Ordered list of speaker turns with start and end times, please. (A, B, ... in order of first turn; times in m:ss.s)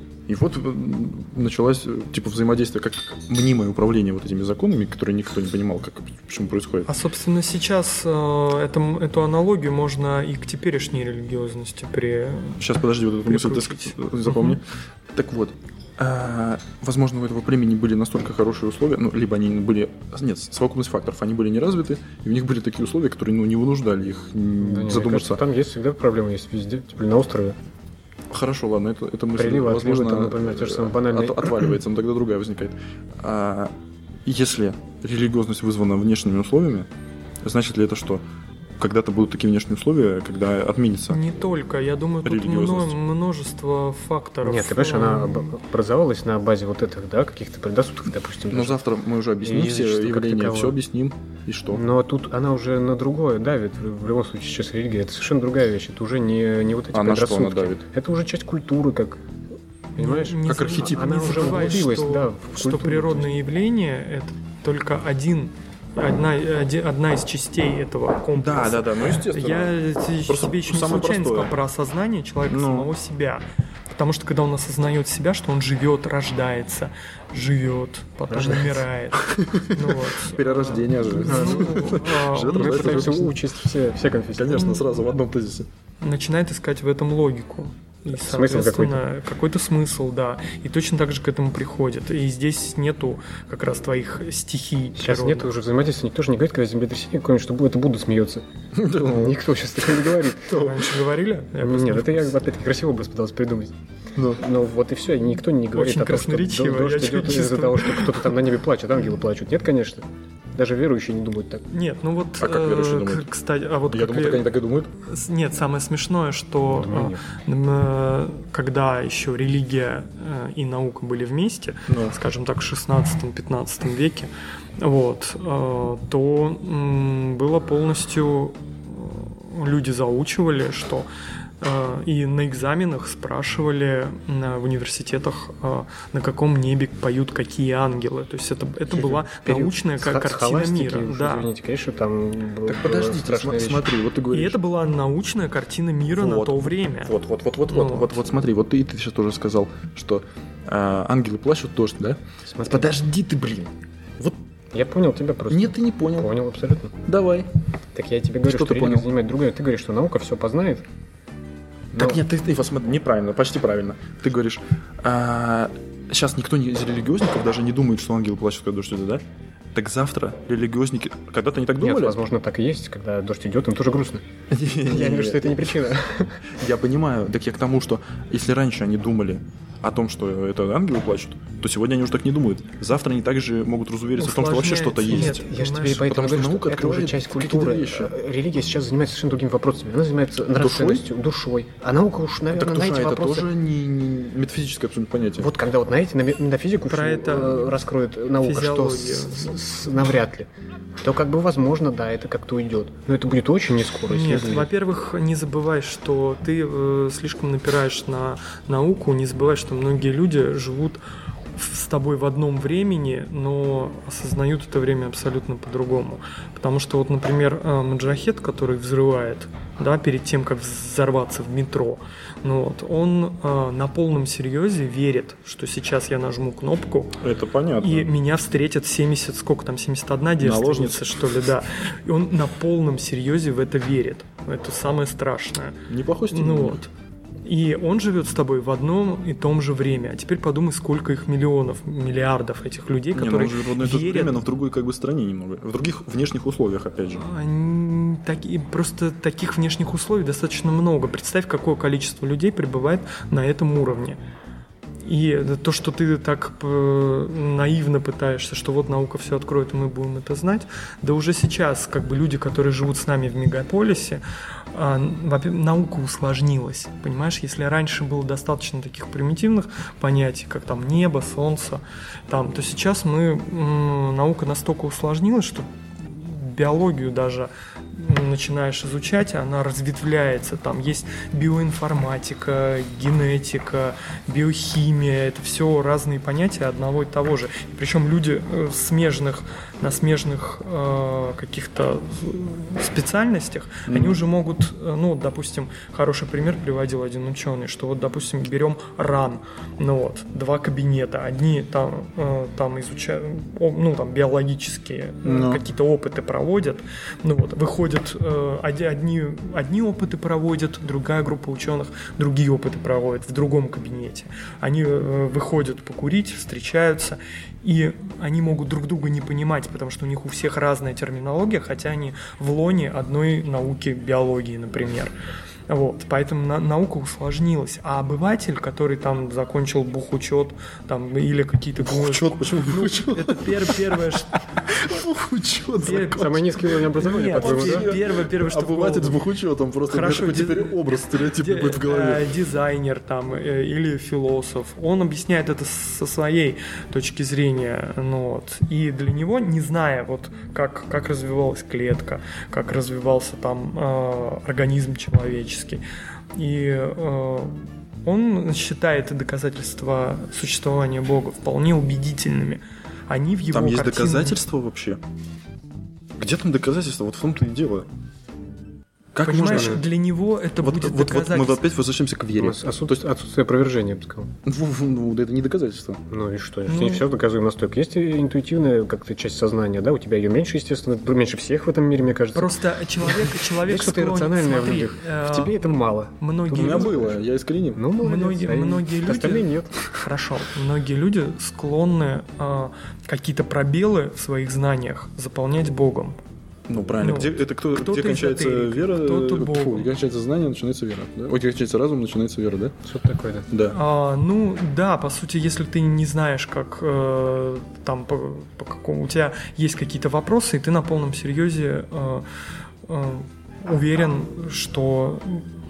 0:00.3-0:06.9 A
0:06.9-0:12.7 B
0:12.6-0:25.4 A
0:13.2-0:14.6 B
0:24.6-0:27.6 C
0:28.3-0:33.7 A
0:29.4-0:31.8 C
0:34.3-0:36.9 A
0:37.4-0:38.2 A
0:38.8-0:41.2 A
0:41.1-0:45.6 B
0:42.2-0:43.0 A
0:44.4-0:48.8 C
0:48.5-0:51.8 A
0:49.4-0:50.8 C
0:51.7-0:59.2 C
0:56.9-0:57.8 A
1:00.0-1:23.3 B
1:00.0-1:03.3 C
1:00.4-1:01.6 A
1:08.4-1:11.5 A
1:12.5-1:12.9 A
1:18.3-1:18.9 C
1:19.2-1:23.4 A
1:21.1-1:22.0 C
1:22.5-1:24.8 C
1:24.3-1:25.7 A
1:24.5-1:24.9 B
1:26.0-1:35.5 B
1:28.1-1:29.1 C
1:35.0-1:40.9 C
1:38.8-1:39.4 A
1:40.5-1:42.4 B
1:41.6-1:43.7 C
1:44.4-1:51.6 C
1:45.7-1:48.3 B
1:51.7-2:11.1 B
1:52.4-1:53.3 A
1:53.9-1:54.9 A
1:56.7-1:57.2 C
2:01.9-2:02.2 A
2:11.6-2:21.5 B
2:18.9-2:23.9 C
2:22.7-2:24.6 A
2:24.3-2:27.1 B
2:26.1-2:34.4 A
2:27.7-2:28.3 B
2:32.5-2:32.9 C
2:34.7-2:37.0 C
2:35.5-2:36.3 A
2:37.1-2:37.5 A
2:37.9-2:40.8 C
2:38.4-2:39.1 A
2:41.9-2:49.2 A
2:42.0-2:42.2 C
2:49.7-2:52.2 A
2:51.8-2:56.4 C
2:54.5-2:55.9 A
2:56.4-3:08.1 A
3:04.2-3:06.1 B
3:05.1-3:13.5 C
3:10.6-3:11.1 A
3:12.5-3:15.5 A
3:15.4-3:24.7 C
3:16.9-3:17.7 B
3:18.4-3:19.6 B
3:24.1-3:31.0 B
3:31.6-3:47.2 B
3:47.2-3:48.1 A
3:47.8-3:56.9 B
3:50.4-3:51.2 A
3:55.9-3:56.8 A
3:57.4-4:04.4 B
4:03.2-4:07.2 A
4:07.2-4:14.2 B
4:15.0-4:24.2 B
4:24.7-5:25.1 B
4:53.9-4:54.2 A
5:05.2-5:05.6 A
5:25.7-5:34.4 B
5:31.8-5:34.0 A
5:34.6-5:42.3 A
5:35.8-5:39.2 B
5:35.9-5:37.9 C
5:39.9-5:55.8 B
5:56.4-6:04.4 B
6:03.5-6:05.0 A
6:06.2-6:07.9 A
6:09.2-6:09.8 A
6:09.2-6:11.6 B
6:09.5-6:09.8 C
6:10.6-6:13.0 A
6:12.4-6:14.3 C
6:14.5-6:16.0 A
6:16.1-6:27.2 C
6:16.7-6:17.1 B
6:22.3-6:27.0 B
6:26.5-6:27.8 A
6:27.8-6:29.7 C
6:28.0-6:36.2 B
6:36.7-6:42.8 A
6:37.0-6:39.9 B
6:42.8-6:43.5 C
6:43.5-6:43.8 A
6:43.7-6:52.3 B
6:52.8-6:55.5 B